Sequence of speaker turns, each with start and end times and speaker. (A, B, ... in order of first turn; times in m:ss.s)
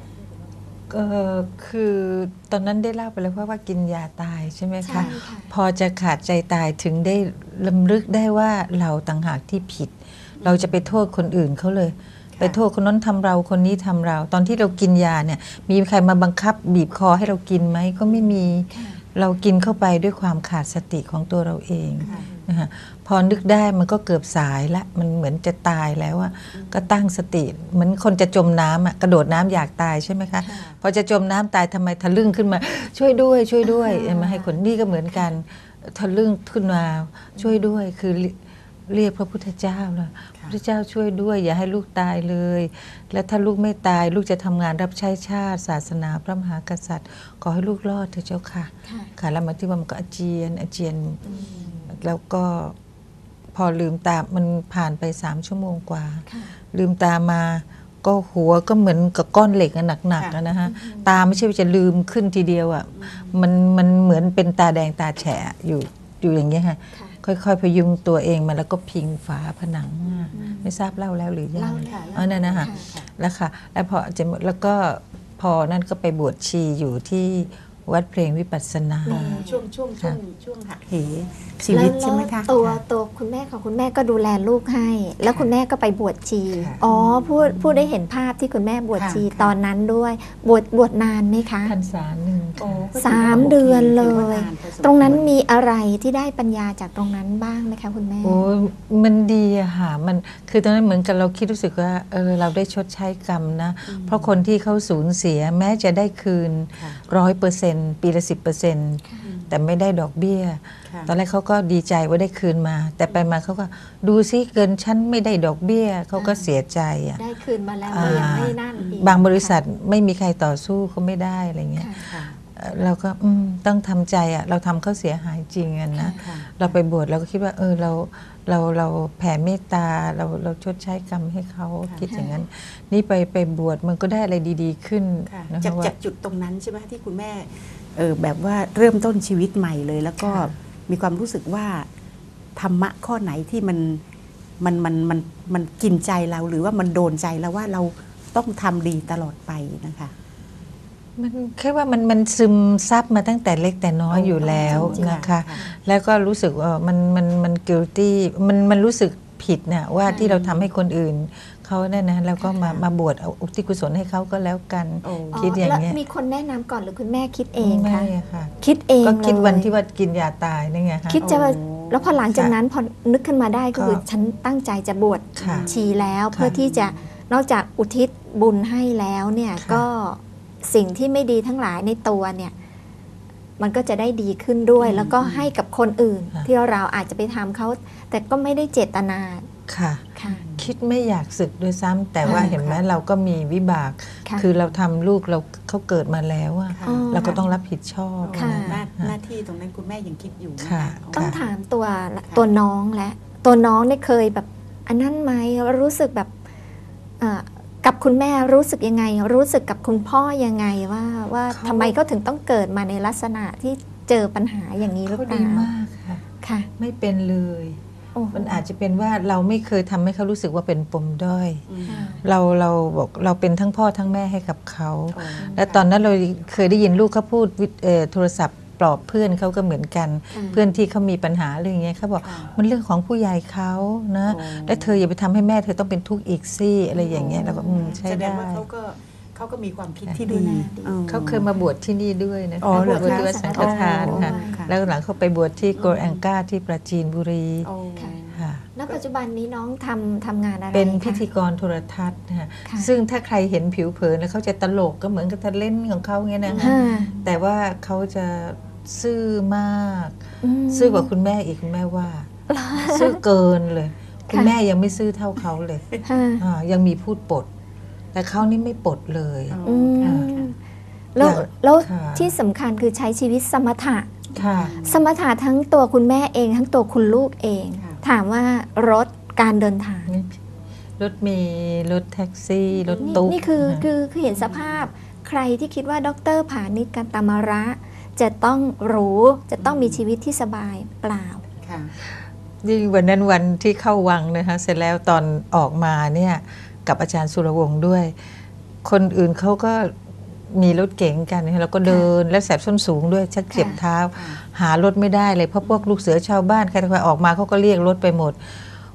0:00.9-0:52.8 A
0:04.8-0:05.5 B
0:04.9-0:05.2 C
0:10.4-0:10.8 C
0:18.0-0:18.3 C
0:18.7-0:19.0 B
0:22.0-0:22.3 C
0:26.5-0:27.0 C
0:30.5-0:30.8 C
0:33.6-0:34.6 B
0:48.8-0:49.1 B
0:51.3-0:51.8 B
0:51.3-0:51.8 C
0:53.5-1:19.4 A
0:56.3-0:56.5 B
1:00.6-1:01.3 B
1:02.9-1:03.4 C
1:06.9-1:07.2 B
1:10.0-1:10.3 C
1:10.3-1:10.7 B
1:11.5-1:12.9 B
1:11.8-1:13.1 C
1:19.0-1:19.6 B
1:19.1-1:22.8 C
1:21.7-1:31.7 B
1:25.2-1:25.5 C
1:26.5-1:27.9 C
1:28.9-1:29.6 C
1:31.6-1:33.5 A
1:32.6-1:35.3 C
1:33.0-1:38.4 B
1:38.2-1:57.2 A
1:43.9-1:44.4 C
1:46.8-1:47.0 C
1:49.0-1:49.3 B
1:49.2-1:49.6 C
1:50.8-1:51.1 C
1:56.2-1:56.4 B
1:57.1-1:59.6 B
1:57.9-2:15.9 A
1:58.0-1:59.2 C
2:01.8-2:02.0 B
2:02.0-2:02.4 C
2:05.9-2:06.2 B
2:06.1-2:06.8 C
2:12.1-2:12.4 B
2:15.3-2:21.9 C
2:22.6-2:24.0 C
2:24.6-2:30.1 C
2:31.2-2:46.0 A
2:34.1-2:35.6 C
2:34.4-2:35.7 B
2:40.1-2:40.7 C
2:42.4-2:42.8 C
2:45.0-2:45.5 C
2:45.3-2:49.7 B
2:47.6-2:51.2 A
2:51.1-3:02.5 B
2:51.2-2:52.2 C
2:53.7-2:54.0 A
2:55.3-2:55.7 A
2:55.4-2:57.0 C
2:59.6-2:59.8 A
3:03.6-3:09.5 B
3:04.8-3:05.5 C
3:09.7-3:19.1 A
3:10.1-3:10.4 B
3:10.2-3:10.7 C
3:12.2-3:12.5 B
3:12.2-3:12.8 C
3:16.7-3:17.4 C
3:16.8-3:17.4 B
3:18.2-3:21.5 C
3:18.3-3:18.8 B
3:20.6-3:21.4 A
3:21.1-3:26.3 B
3:27.2-3:35.7 B
3:31.5-3:32.0 A
3:35.0-3:36.2 A
3:36.4-3:36.7 B
3:36.8-3:37.8 A
3:38.1-3:38.6 B
3:38.3-3:58.6 A
3:41.7-3:42.1 C
3:41.9-3:42.2 B
3:45.1-3:45.9 C
3:50.3-3:50.6 B
3:50.3-3:50.8 C
3:52.2-3:52.5 C
3:54.2-3:55.0 C
3:57.0-4:01.5 C
3:57.3-3:58.0 B
4:00.2-4:01.0 B
4:01.1-4:07.7 A
4:02.6-4:04.7 C
4:02.7-4:04.7 B
4:05.7-4:06.2 C
4:07.6-4:09.0 C
4:08.3-4:08.7 A
4:08.7-4:11.2 B
4:10.7-4:27.5 A
4:12.6-4:12.9 B
4:16.4-4:16.8 C
4:16.6-4:17.1 B
4:20.4-4:21.1 B
4:22.5-4:23.2 B
4:24.3-4:24.6 B
4:26.0-4:26.4 B
4:28.1-4:30.3 A
4:29.5-4:30.5 C
4:29.6-4:30.6 B
4:31.1-4:34.1 B
4:31.2-4:32.3 A
4:34.3-4:35.0 C
4:34.3-4:34.7 A
4:34.7-4:40.1 B
4:37.7-4:38.0 C
4:40.1-4:40.4 A
4:41.0-4:43.9 A
4:42.8-4:43.2 C
4:43.0-4:51.4 B
4:44.3-4:44.9 C
4:49.6-4:50.0 C
4:51.6-4:51.9 C
4:52.1-5:08.6 A
5:01.8-5:02.1 B
5:03.5-5:03.8 B
5:03.6-5:04.4 C
5:05.6-5:06.0 C